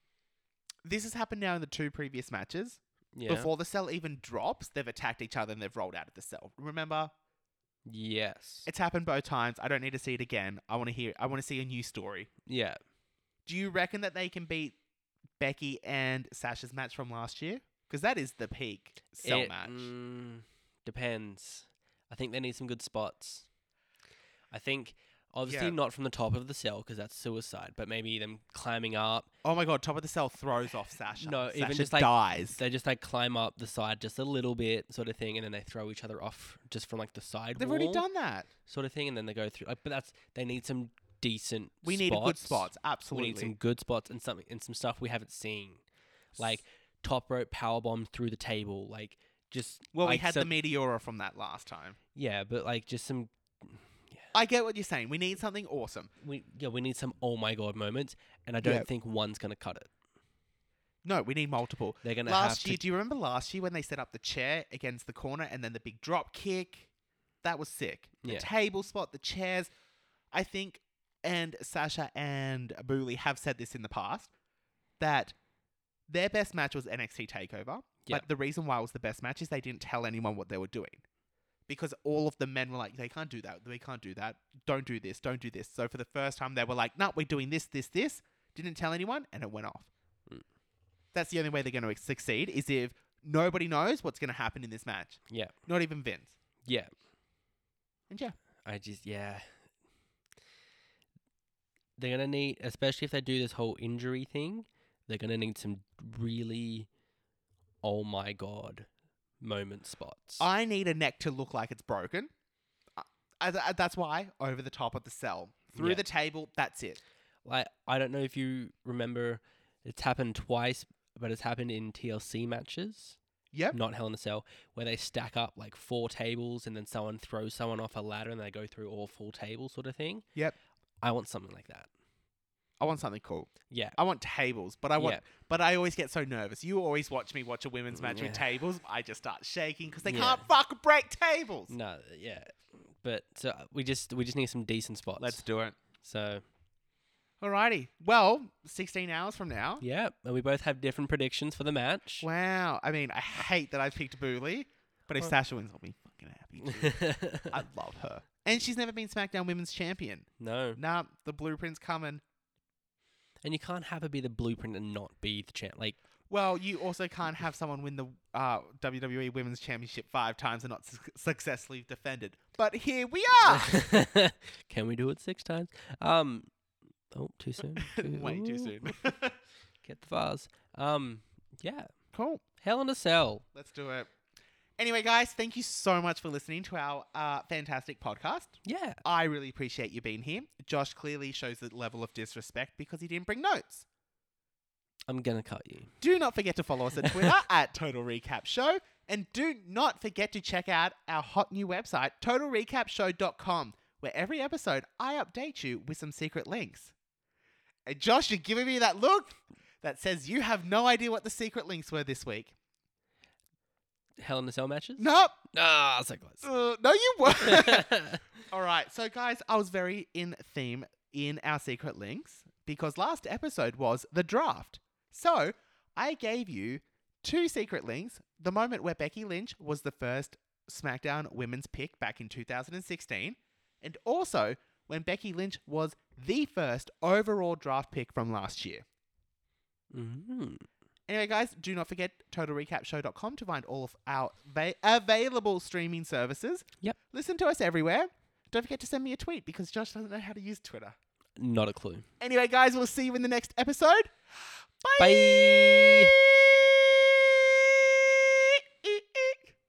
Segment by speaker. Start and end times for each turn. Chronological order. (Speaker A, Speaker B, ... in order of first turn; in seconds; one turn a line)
Speaker A: 0.8-7.1
Speaker B: 3.1-3.5
Speaker B: 7.9-8.7
Speaker A: 8.7-12.3
Speaker B: 12.5-12.8
Speaker A: 13.4-14.8
Speaker A: 15.4-19.9
Speaker B: 19.2-23.5
Speaker B: 24.5-29.3
Speaker A: 25.5-25.8
Speaker A: 29.4-32.6
Speaker B: 31.2-38.0
Speaker A: 37.5-38.5
Speaker B: 38.6-45.8
Speaker A: 41.8-43.5
Speaker B: 46.4-50.5
Speaker A: 49.9-52.0
Speaker B: 52.1-54.3
Speaker A: 54.3-56.1
Speaker B: 56.2-59.9
Speaker A: 58.6-58.9
Speaker A: 61.0-66.9
Speaker B: 62.0-62.8
Speaker A: 67.4-69.7
Speaker B: 68.2-68.5
Speaker A: 70.3-74.3
Speaker A: 75.0-75.3
Speaker A: 76.1-81.0
Speaker A: 81.7-89.9
Speaker A: 91.1-96.3
Speaker B: 95.3-95.5
Speaker B: 96.6-96.9
Speaker A: 98.1-98.3
Speaker B: 98.6-99.5
Speaker B: 102.0-106.9
Speaker B: 107.8-108.9
Speaker B: 109.4-110.4
Speaker A: 110.4-112.3
Speaker A: 113.0-117.0
Speaker B: 115.7-116.0
Speaker B: 117.4-123.2
Speaker A: 123.5-123.8
Speaker B: 123.7-130.2
Speaker B: 131.0-131.9
Speaker A: 132.8-141.7
Speaker B: 133.7-133.9
Speaker B: 135.0-135.2
Speaker B: 137.9-138.6
Speaker B: 140.1-140.4
Speaker B: 141.7-145.4
Speaker A: 145.2-145.8
Speaker B: 146.0-146.4
Speaker A: 147.4-149.8
Speaker B: 149.8-152.3
Speaker A: 152.2-162.2
Speaker B: 156.6-157.6
Speaker B: 160.4-160.8
Speaker B: 163.4-166.0
Speaker A: 166.3-173.7
Speaker B: 173.4-176.5
Speaker B: 177.1-179.0
Speaker A: 177.8-179.4
Speaker B: 179.8-181.9
Speaker A: 182.1-182.4
Speaker B: 182.6-183.4
Speaker A: 183.5-184.1
Speaker A: 184.8-193.8
Speaker B: 188.6-189.0
Speaker B: 195.1-195.9
Speaker A: 196.0-206.9
Speaker B: 197.0-197.4
Speaker A: 207.8-212.5
Speaker B: 214.2-216.5
Speaker A: 215.0-215.4
Speaker A: 216.4-217.9
Speaker B: 217.2-218.2
Speaker A: 218.5-238.8
Speaker B: 239.9-240.7
Speaker A: 241.1-250.9
Speaker B: 251.4-252.1
Speaker A: 252.2-254.1
Speaker A: 254.8-259.4
Speaker B: 255.0-256.1